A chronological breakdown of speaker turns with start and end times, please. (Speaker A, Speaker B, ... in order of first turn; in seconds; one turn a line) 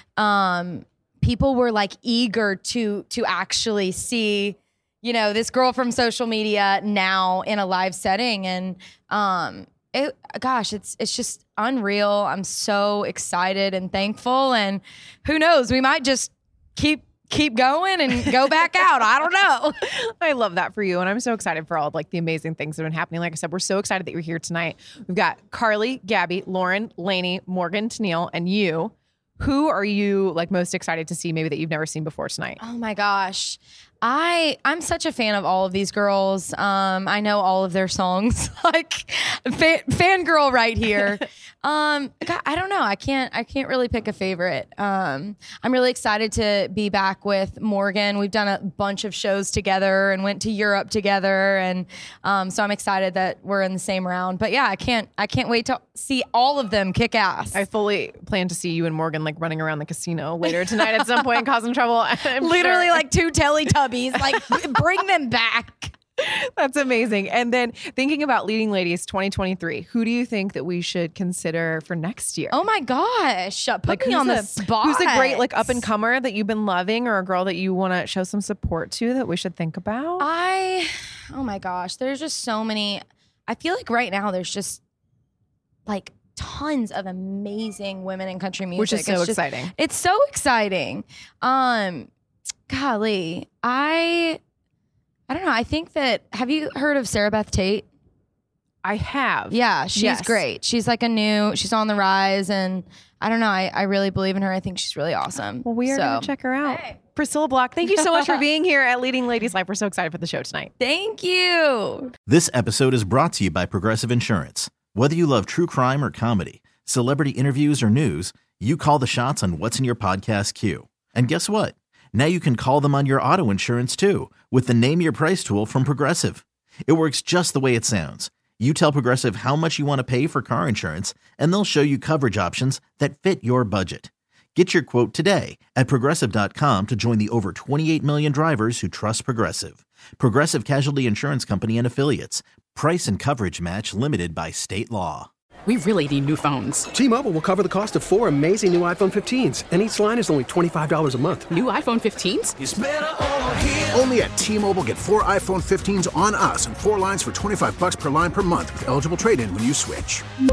Speaker A: 0.2-19.8
Speaker B: 19.8-32.6
Speaker A: 32.6-57.6
Speaker B: 57.5-63.0
Speaker A: 62.4-66.0
Speaker B: 66.2-72.5
Speaker A: 72.5-75.8
Speaker B: 73.9-80.2
Speaker A: 80.2-84.8
Speaker A: 85.8-92.1
Speaker B: 88.8-89.7
Speaker A: 92.7-94.4
Speaker A: 95.3-97.8
Speaker B: 98.8-100.4
Speaker A: 99.5-106.9
Speaker B: 105.6-110.7
Speaker A: 110.8-112.1
Speaker C: 112.3-145.3
Speaker D: 145.7-146.8
Speaker E: 146.9-151.5
Speaker D: 151.5-152.5
Speaker F: 152.6-160.2